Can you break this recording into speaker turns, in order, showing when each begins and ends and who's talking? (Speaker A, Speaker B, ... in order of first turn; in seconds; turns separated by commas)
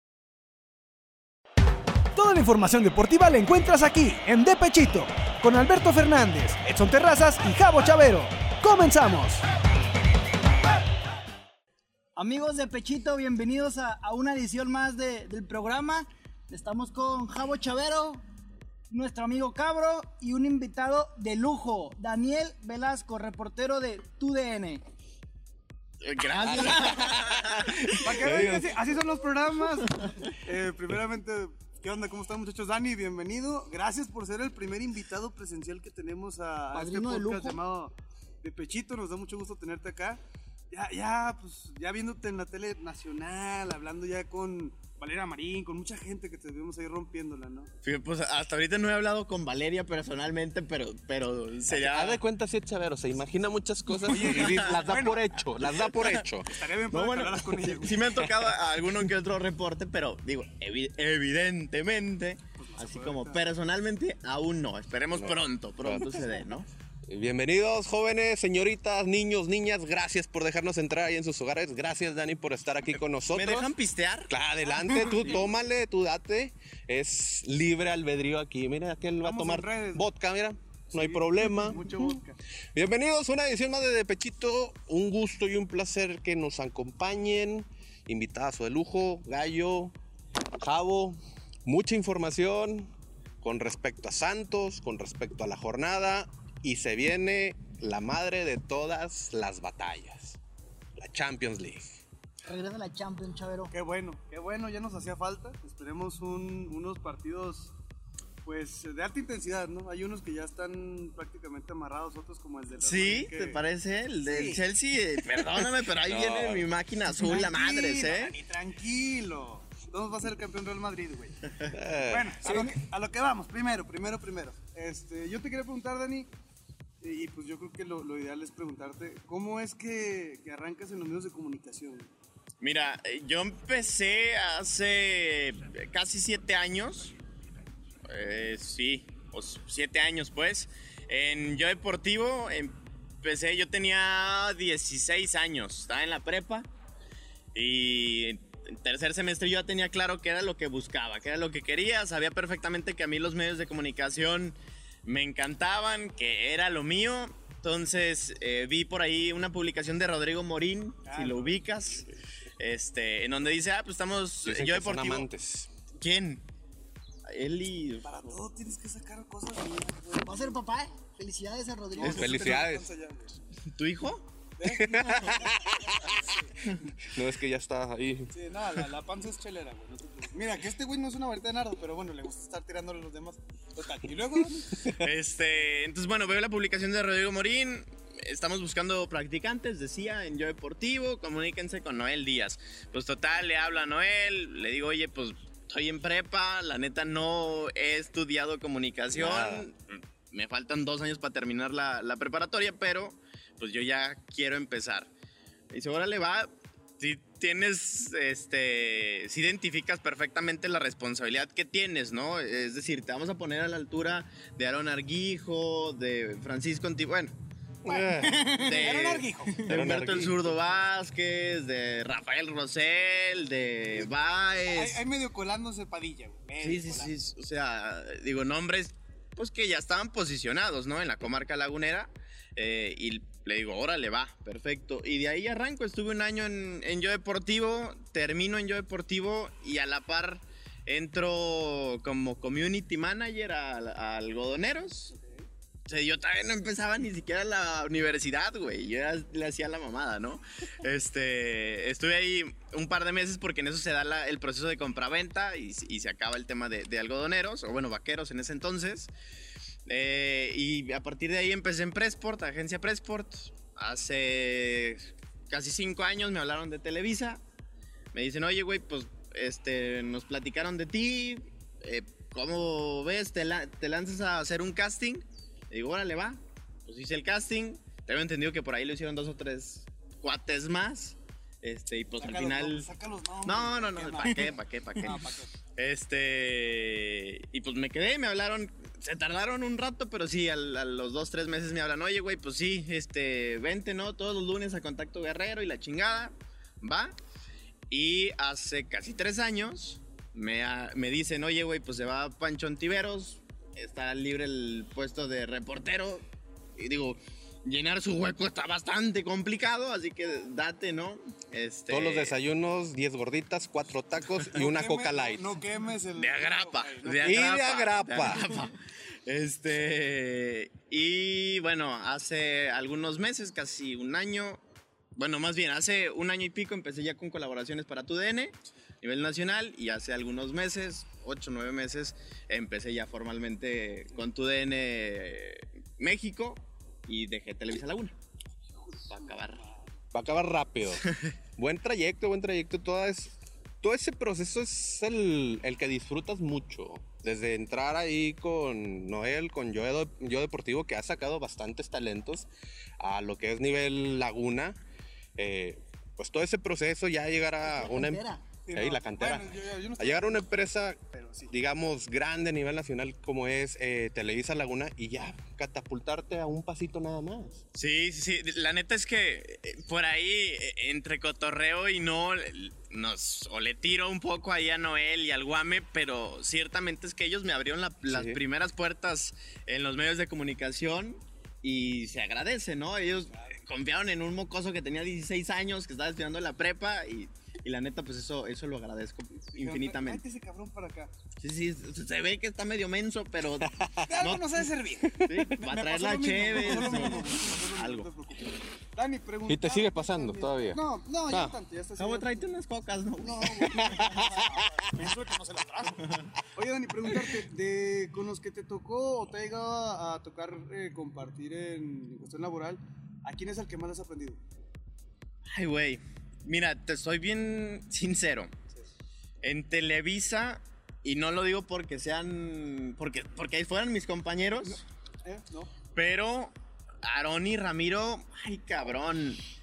Speaker A: 2.1-9.4, Speaker B: 12.2-18.2, Speaker B: 18.9-24.8, Speaker C: 26.0-28.6, Speaker D: 26.4-28.8, Speaker E: 28.0-47.7, Speaker B: 36.7-37.6, Speaker C: 47.8-52.2, Speaker D: 51.7-56.6, Speaker E: 54.0-55.2, Speaker C: 54.1-54.9, Speaker E: 56.5-58.1, Speaker C: 56.9-66.7, Speaker E: 62.6-63.4, Speaker D: 65.1-66.2, Speaker D: 67.0-73.7, Speaker C: 73.3-74.3, Speaker D: 74.3-82.2, Speaker E: 75.0-75.4, Speaker E: 79.2-80.0, Speaker E: 80.9-82.4, Speaker D: 82.7-89.9, Speaker D: 90.6-92.9, Speaker D: 93.4-100.4, Speaker D: 101.0-102.0, Speaker B: 102.4-103.7, Speaker E: 103.7-107.7, Speaker E: 108.4-113.6, Speaker C: 112.8-118.3, Speaker E: 114.3-114.6, Speaker D: 115.3-116.7, Speaker E: 117.2-121.5, Speaker D: 121.7-122.4, Speaker E: 122.0-126.3, Speaker B: 122.4-122.8, Speaker E: 127.0-132.1, Speaker C: 132.6-137.1, Speaker C: 138.1-146.7, Speaker C: 147.5-165.3, Speaker E: 161.1-162.0, Speaker D: 164.4-165.7, Speaker C: 166.0-166.4, Speaker C: 167.3-168.4, Speaker E: 168.0-170.6, Speaker B: 170.2-172.4, Speaker E: 171.9-173.4, Speaker D: 172.0-172.9, Speaker C: 173.8-174.2, Speaker E: 174.6-176.5, Speaker D: 174.6-175.8, Speaker D: 177.0-178.3, Speaker E: 178.3-184.8, Speaker D: 184.8-185.1, Speaker C: 184.8-205.1, Speaker D: 199.1-199.7, Speaker C: 205.7-217.3, Speaker D: 217.8-218.7, Speaker C: 218.3-225.0, Speaker E: 218.6-219.7, Speaker D: 219.6-220.6, Speaker E: 224.7-227.1, Speaker C: 226.6-245.1, Speaker E: 245.1-245.4, Speaker C: 245.9-259.1, Speaker C: 259.9-267.4, Speaker C: 268.1-282.9, Speaker E: 282.2-285.5, Speaker C: 283.4-297.1, Speaker C: 297.9-306.2, Speaker C: 306.8-312.4, Speaker D: 311.9-315.6, Speaker E: 314.5-317.4, Speaker C: 316.1-324.6, Speaker D: 317.1-318.6, Speaker C: 325.1-338.1, Speaker E: 338.9-339.8, Speaker C: 339.1-339.6, Speaker D: 340.1-352.5, Speaker D: 353.0-354.8, Speaker D: 355.4-367.6, Speaker B: 357.6-358.4, Speaker E: 358.6-360.5, Speaker E: 361.1-361.5, Speaker C: 367.7-390.2, Speaker D: 378.1-378.4, Speaker E: 383.2-383.6, Speaker E: 389.5-391.1, Speaker C: 391.4-398.1, Speaker D: 393.6-394.2, Speaker E: 394.1-402.5, Speaker D: 395.1-395.4, Speaker D: 399.5-401.5, Speaker C: 402.0-404.2, Speaker E: 403.2-414.4, Speaker D: 403.7-404.2, Speaker C: 415.5-418.5, Speaker C: 419.4-424.8, Speaker E: 424.6-425.7, Speaker C: 425.9-426.5, Speaker C: 427.0-429.4